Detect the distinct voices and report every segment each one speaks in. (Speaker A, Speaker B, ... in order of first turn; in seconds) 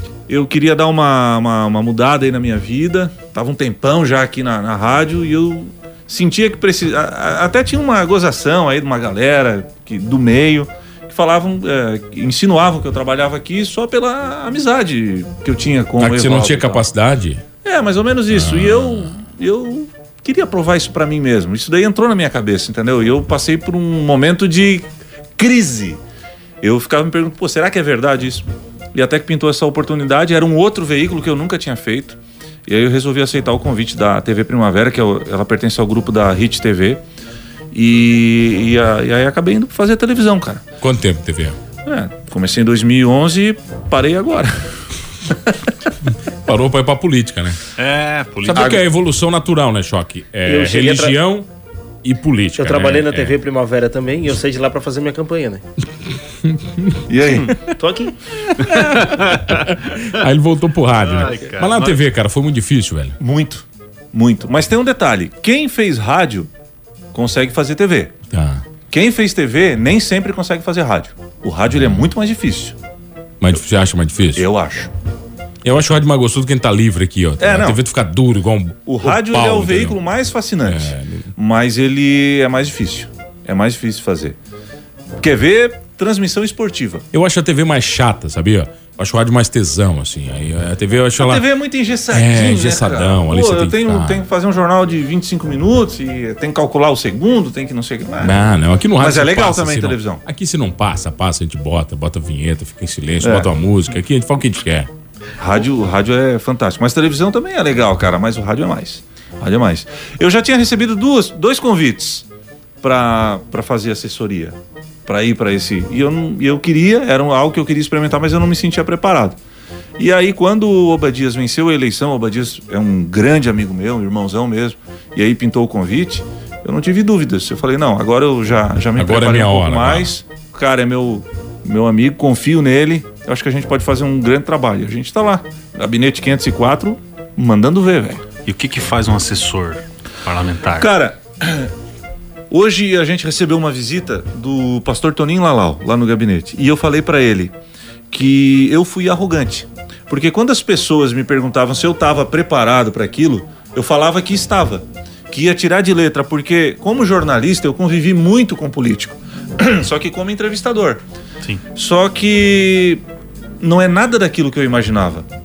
Speaker A: 0.3-16.9, 17.6-24.9, 25.4-26.0, 26.6-37.0, 37.7-40.6, 41.8-44.6, 48.5-48.8, 57.1-57.5, 63.2-66.5, 67.1-68.1, 68.9-72.8, 74.3-74.9, 77.4-77.8, 78.8-84.4, 85.2-87.0, 91.2-98.4, 99.0-100.2, 103.2-103.5, 105.4-112.3, 112.8-119.4, 120.0-138.2, 140.7-141.7, 142.5-147.5, 148.1-161.0, 161.7-163.0, 163.6-165.3
Speaker B: 16.0-17.4, 18.3-19.1, 40.8-41.5, 46.4-47.6, 48.4-51.5, 52.0-53.3, 56.4-57.0, 58.5-63.2, 68.3-68.6, 71.8-72.0, 73.4-74.5, 75.6-80.0, 80.6-81.3, 87.1-91.4, 92.1-94.2, 98.2-104.9, 129.0-130.1
Speaker C: 47.8-48.8, 59.0-59.4, 61.0-62.0, 138.4-140.9
Speaker D: 50.4-51.2, 52.6-55.6, 57.7-58.1